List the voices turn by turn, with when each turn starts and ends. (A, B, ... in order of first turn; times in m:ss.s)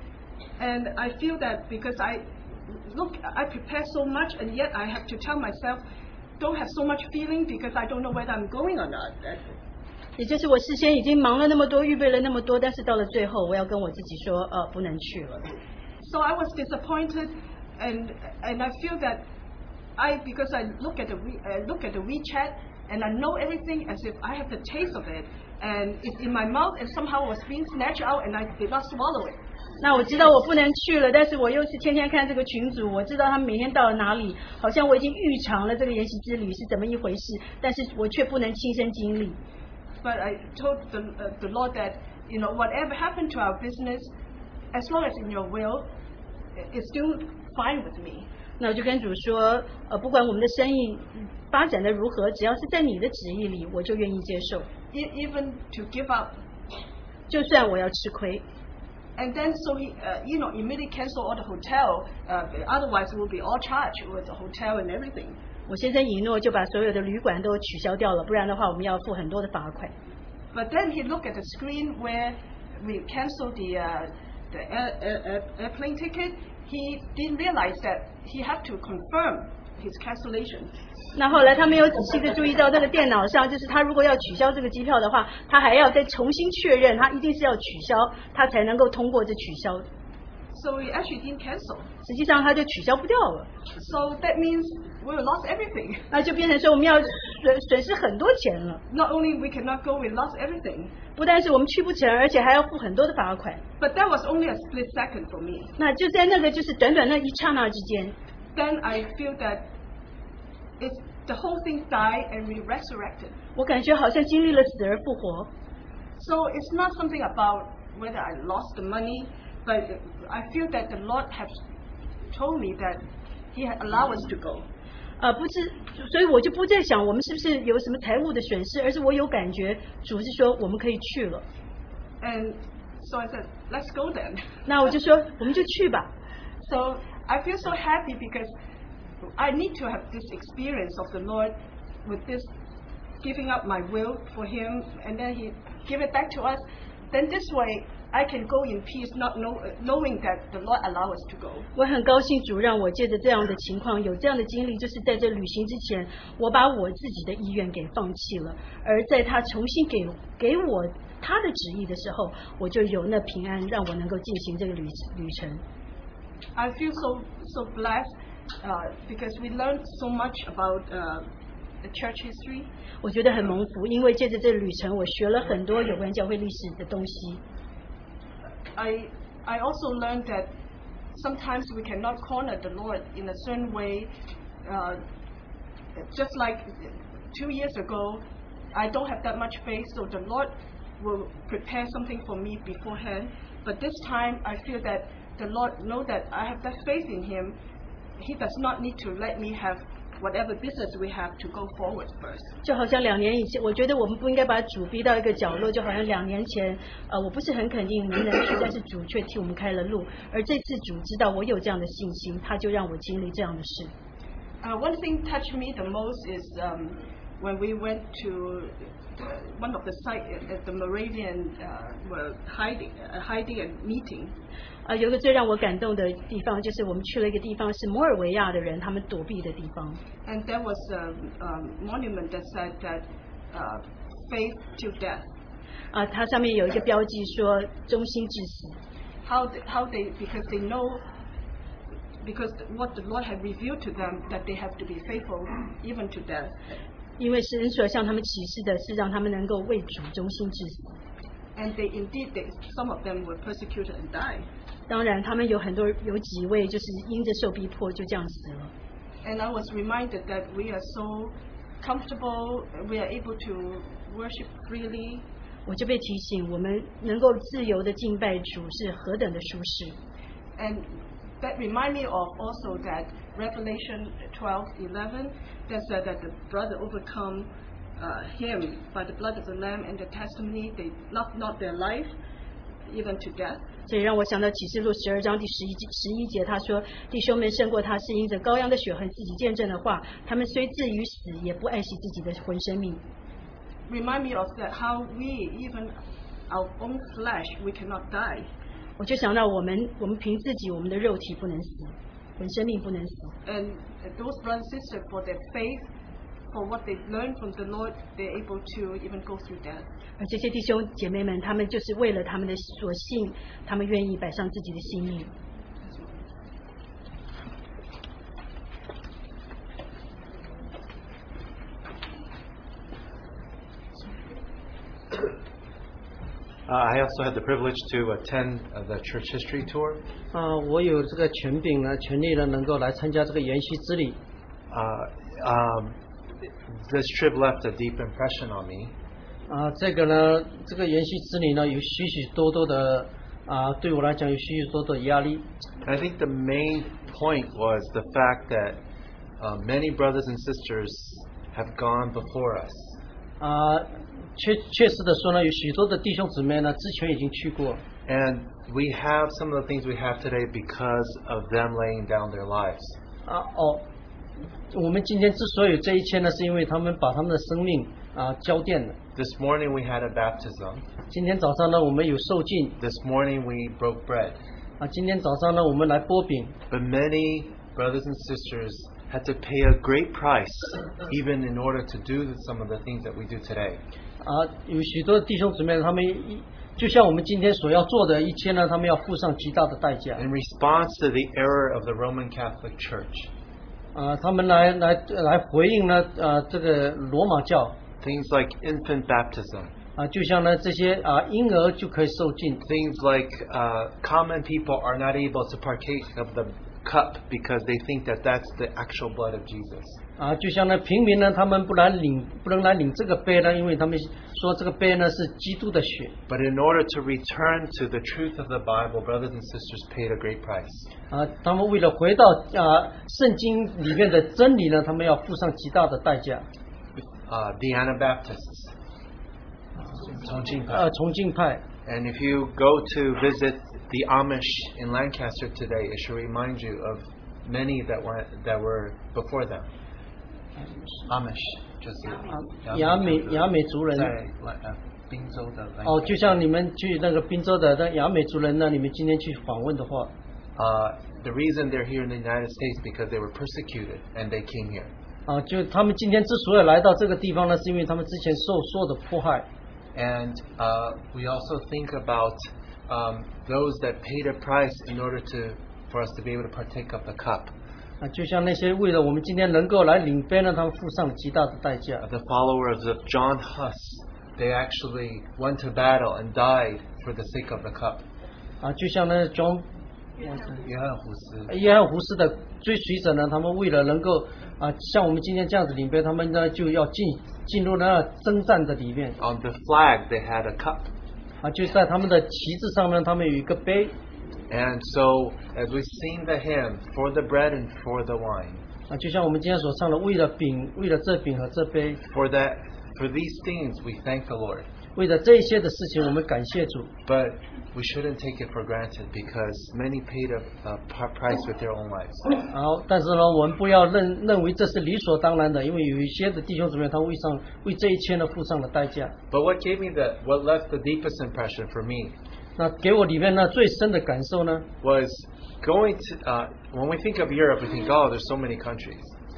0:00.6-0:05.8 A
0:06.4-0:09.5 A
0:10.2-0:15.5 B
0:16.0-0:19.2 A
0:20.0-0:29.4 A
0:29.8-0:39.4 B
0:40.0-0:44.1 A
0:44.7-0:45.9 A
0:46.6-0:48.3 A
0:48.6-0:54.7 B
0:54.9-0:56.4 A
0:57.3-0:58.4 B
0:59.2-1:05.4 A
1:05.7-1:09.9 B
1:10.5-1:20.7 A
1:21.2-1:29.9 B
1:30.5-1:31.9 A
1:32.0-1:33.5 B
1:33.8-1:36.0 A
1:36.1-1:38.8 B
1:38.9-1:40.9 A
1:41.2-1:43.6 B
1:43.8-1:45.7 A
1:45.8-1:48.2 B
1:48.6-1:49.7 A
1:50.8-1:53.4 A
1:53.6-1:55.5 B
1:56.2-2:01.6 A
2:02.3-2:04.7 A
2:05.2-2:11.4 B
2:12.2-2:14.4 A
2:14.7-2:16.1 B
2:16.6-2:18.5 A
2:19.4-2:22.5 A
2:23.2-2:31.7 A
2:31.8-2:45.6 B
2:46.6-2:48.1 A
2:48.6-2:51.3 A
2:51.8-2:52.7 A
2:53.0-2:57.4 B
2:58.8-3:00.5 A
3:01.1-3:04.1 A
3:04.6-3:05.0 A
3:06.0-3:17.6 A
3:18.2-3:22.5 A
3:22.6-3:33.9 B
3:34.6-3:44.3 A
3:44.9-3:50.0 B
3:50.3-3:55.2 A
3:55.9-3:58.8 B
3:59.2-4:01.0 A
4:02.2-4:06.5 A
4:07.2-4:10.9 B
4:11.6-4:14.5 A
4:14.9-4:18.7 B
4:19.2-4:25.2 A
4:25.7-4:30.0 B
4:30.6-4:30.9 A
4:31.4-4:42.1 A
4:42.9-4:43.6 A
4:43.9-4:53.0 B
4:53.9-4:55.9 A
4:56.5-4:58.5 A
4:59.0-5:03.3 B
5:03.4-5:05.9 A
5:06.5-5:09.9 A
5:10.2-5:15.3 B
5:26.7-5:30.0 C
5:30.3-5:34.2 D
5:34.7-5:36.0 C
5:36.8-5:38.9 C
5:39.5-5:45.4 D
5:45.8-5:48.8 C
5:49.4-5:52.9 C
5:53.4-5:53.8 D
5:54.4-5:57.8 D
5:58.1-6:03.0 C
6:03.3-6:03.8 D
6:04.7-6:09.0 D
6:09.2-6:10.8 C
6:11.1-6:12.8 D
6:12.8-6:14.4 C
6:14.8-6:16.6 D
6:16.7-6:23.8 C
6:24.2-6:30.3 D
6:30.2-6:33.3 C
6:34.0-6:37.8 D
6:38.0-6:39.7 C
6:40.0-6:42.6 D
6:42.6-6:50.0 C
6:50.2-6:56.2 D
6:56.3-7:00.9 C
7:01.1-7:06.4 D
7:07.0-7:08.7 C
7:10.1-7:10.9 C
7:10.7-7:11.6 D
7:11.8-7:19.7 C
7:21.1-7:26.4 C
7:22.3-7:24.1 D
7:25.8-7:30.1 D
7:30.6-7:34.9 C
7:35.3-7:39.5 D
7:40.0-7:47.5 C
7:48.0-7:52.0 D
7:52.0-7:58.0 C
7:58.6-7:59.6 D
8:00.2-8:00.6 D
8:00.6-8:01.5 C
8:01.5-8:09.2 D
8:09.2-8:10.9 C
8:11.4-8:13.9 D
8:14.5-8:18.6 C
8:18.9-8:22.0 D
8:22.1-8:24.7 C
8:25.0-8:26.9 D
8:27.1-8:32.4 C
8:32.5-8:39.1 D
8:39.3-8:42.2 C
8:42.6-8:44.7 D
8:44.8-8:49.1 C